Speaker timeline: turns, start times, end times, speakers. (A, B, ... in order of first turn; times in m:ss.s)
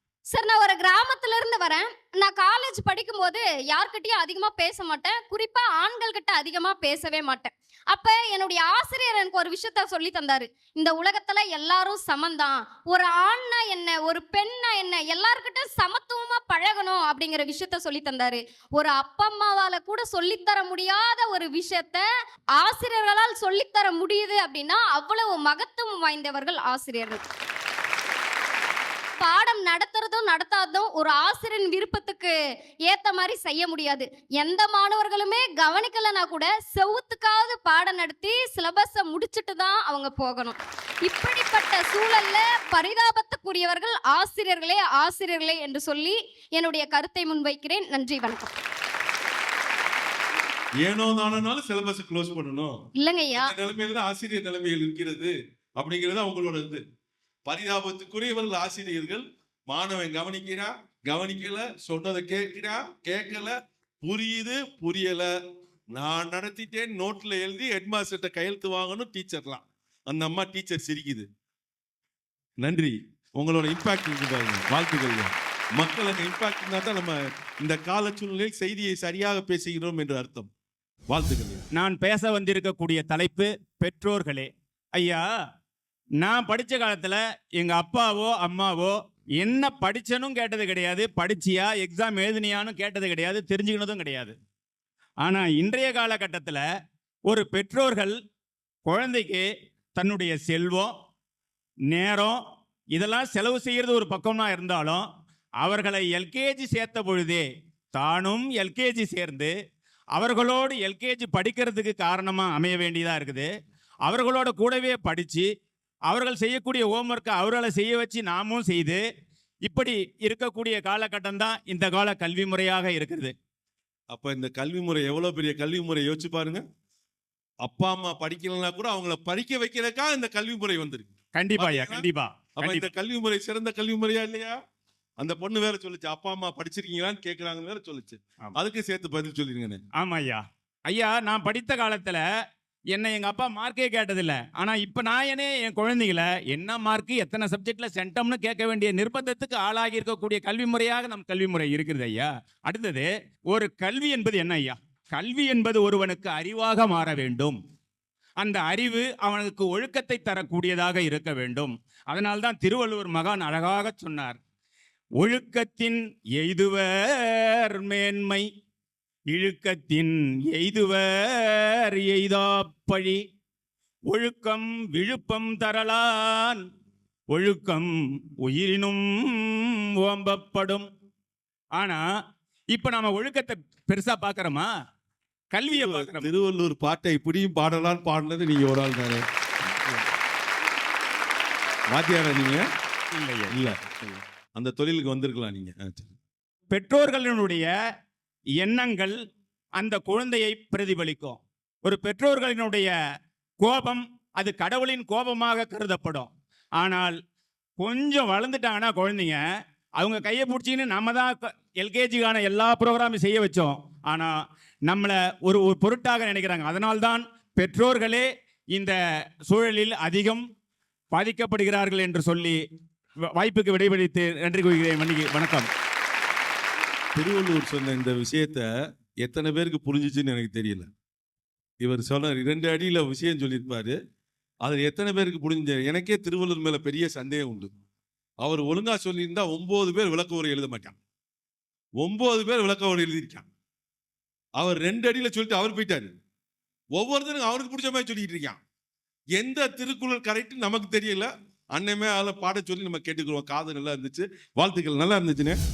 0:00.3-0:22.0 A
0:22.6-0:27.2 A
0:29.2-0:32.3 A
0:32.9-0:48.6 A
0:50.8-0:52.8 B
0:53.0-0:53.5 A
0:53.4-0:56.8 B
0:57.5-1:05.3 B
1:06.0-1:11.3 B
1:12.6-1:20.5 B
1:21.1-1:21.7 B
1:21.7-1:25.2 C
1:26.2-1:34.4 C
1:35.2-1:36.6 C
1:37.3-1:38.2 C
1:38.9-1:39.5 C
1:40.0-1:40.9 C
1:41.9-1:42.4 C
1:43.0-1:45.0 C
1:45.6-1:49.5 C
1:50.2-1:53.5 C
1:54.1-1:55.5 C
1:56.1-1:59.0 C
1:59.7-2:03.3 C
2:04.1-2:06.6 B
2:07.6-2:14.6 B
2:11.4-2:12.9 C
2:15.2-2:19.8 B
2:20.0-2:22.2 C
2:22.9-2:37.6 C
2:38.4-2:44.4 C
2:45.2-2:48.4 C
2:49.3-2:53.2 C
2:54.1-2:56.7 C
2:57.3-2:57.9 C
2:58.4-3:00.9 C
3:02.7-3:04.7 C
3:05.5-3:06.3 C
3:05.7-3:09.2 B
3:09.6-3:10.1 C
3:11.9-3:12.6 B
3:13.2-3:14.2 C
3:13.5-3:13.8 B
3:14.6-3:16.1 B
3:16.7-3:17.7 C
3:18.6-3:19.2 C
3:19.8-3:22.9 C
3:23.6-3:27.2 C
3:27.8-3:29.4 C
3:30.0-3:34.3 C
3:34.9-3:39.0 C
3:39.5-3:40.4 C
3:41.1-3:42.6 C
3:43.4-3:45.7 C
3:47.2-3:48.7 B
3:49.2-3:50.9 B
3:51.8-3:54.0 B
3:54.6-3:57.7 B
3:58.4-4:01.0 B
4:02.0-4:03.5 B
4:04.6-4:06.1 B
4:07.0-4:08.6 B
4:09.4-4:15.6 B